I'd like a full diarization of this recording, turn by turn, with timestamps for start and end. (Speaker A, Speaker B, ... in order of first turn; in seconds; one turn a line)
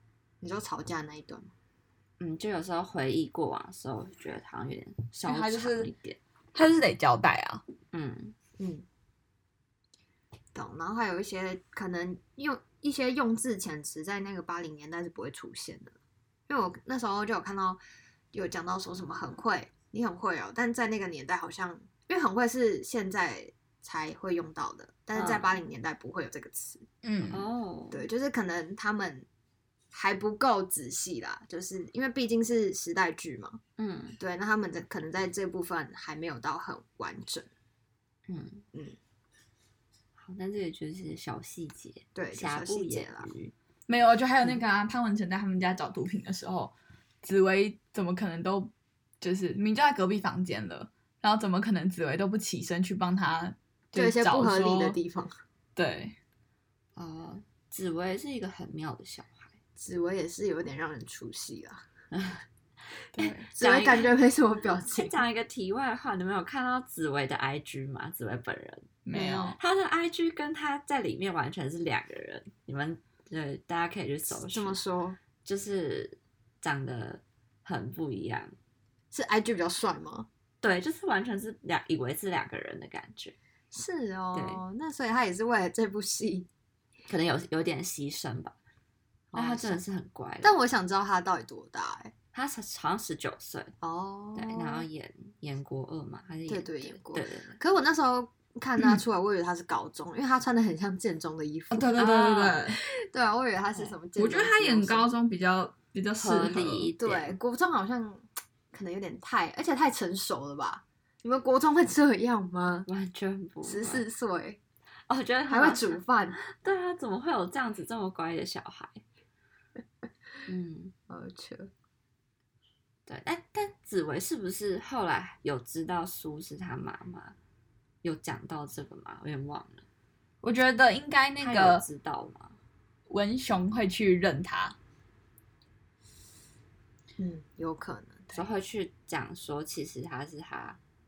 Speaker A: 0.4-1.5
Speaker B: 2.2-6.2
Speaker C: 5.2-5.9
Speaker C: 6.5-7.6
Speaker B: 7.9-8.3
Speaker A: 8.6-8.8
Speaker A: 10.5-15.9
Speaker A: 16.5-17.8
Speaker A: 18.3-26.9
Speaker B: 25.1-25.6
Speaker C: 27.0-27.5
Speaker B: 27.3-28.1
Speaker A: 27.9-29.2
Speaker A: 29.9-33.6
Speaker B: 33.8-34.2
Speaker A: 34.2-37.5
Speaker B: 38.3-38.6
Speaker B: 40.1-43.5
Speaker A: 42.1-43.3
Speaker C: 43.9-55.0
Speaker A: 53.9-55.3
Speaker C: 55.8-56.1
Speaker B: 57.0-59.5
Speaker A: 59.8-61.8
Speaker B: 62.1-62.4
Speaker C: 63.1-63.5
Speaker B: 63.2-64.1
Speaker A: 63.6-65.2
Speaker B: 64.9-68.9
Speaker C: 69.0-69.6
Speaker A: 69.1-69.6
Speaker B: 69.6-74.8
Speaker A: 74.3-75.2
Speaker B: 75.4-78.5
Speaker A: 79.1-80.3
Speaker B: 80.6-83.3
Speaker A: 83.7-86.5
Speaker B: 84.3-84.6
Speaker B: 87.1-88.5
Speaker A: 89.3-89.8
Speaker B: 89.3-90.6
Speaker A: 90.4-92.1
Speaker B: 92.3-93.7
Speaker A: 93.8-94.8
Speaker B: 94.3-97.6
Speaker A: 96.5-101.9
Speaker C: 101.7-102.8
Speaker B: 102.0-102.6
Speaker A: 102.8-105.1
Speaker C: 104.2-106.9
Speaker B: 106.2-107.4
Speaker A: 107.0-112.9
Speaker B: 112.9-114.0
Speaker A: 113.6-114.6
Speaker B: 115.1-119.0
Speaker A: 115.5-116.4
Speaker B: 120.5-120.9
Speaker A: 121.1-121.7
Speaker B: 123.1-127.3
Speaker B: 128.0-129.8
Speaker C: 130.4-131.8
Speaker B: 131.4-132.6
Speaker C: 133.1-134.8
Speaker A: 137.2-138.4
Speaker B: 138.3-140.8